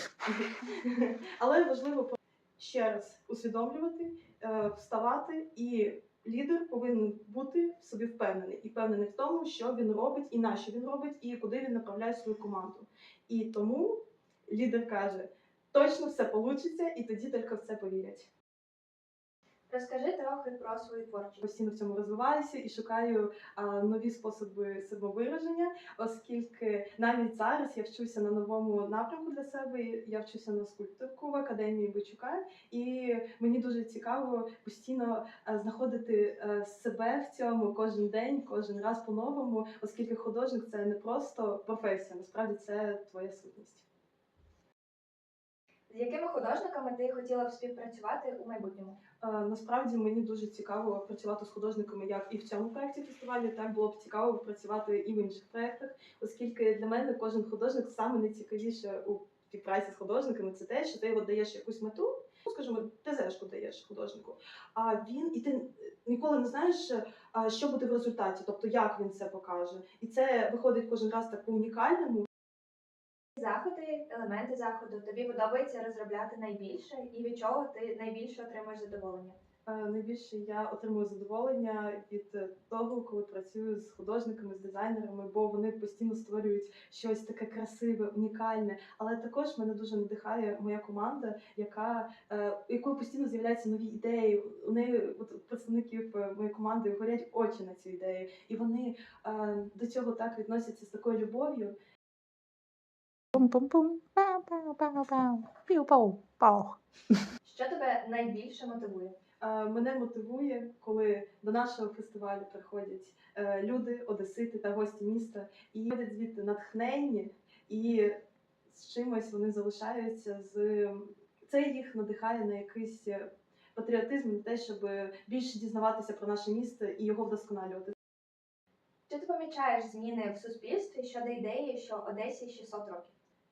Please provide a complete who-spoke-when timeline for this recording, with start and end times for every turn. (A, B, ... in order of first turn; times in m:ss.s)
0:00.3-0:18.3 A
0:19.7-0:21.5 B
0:21.4-0:43.9 A
0:45.9-0:49.0 B
0:49.2-1:12.3 A
1:13.4-1:19.4 B
1:19.7-1:41.8 A
1:43.3-1:46.8 C
1:47.4-1:49.2 B
1:49.4-1:58.2 A
1:58.7-2:07.9 A
2:09.1-2:13.1 B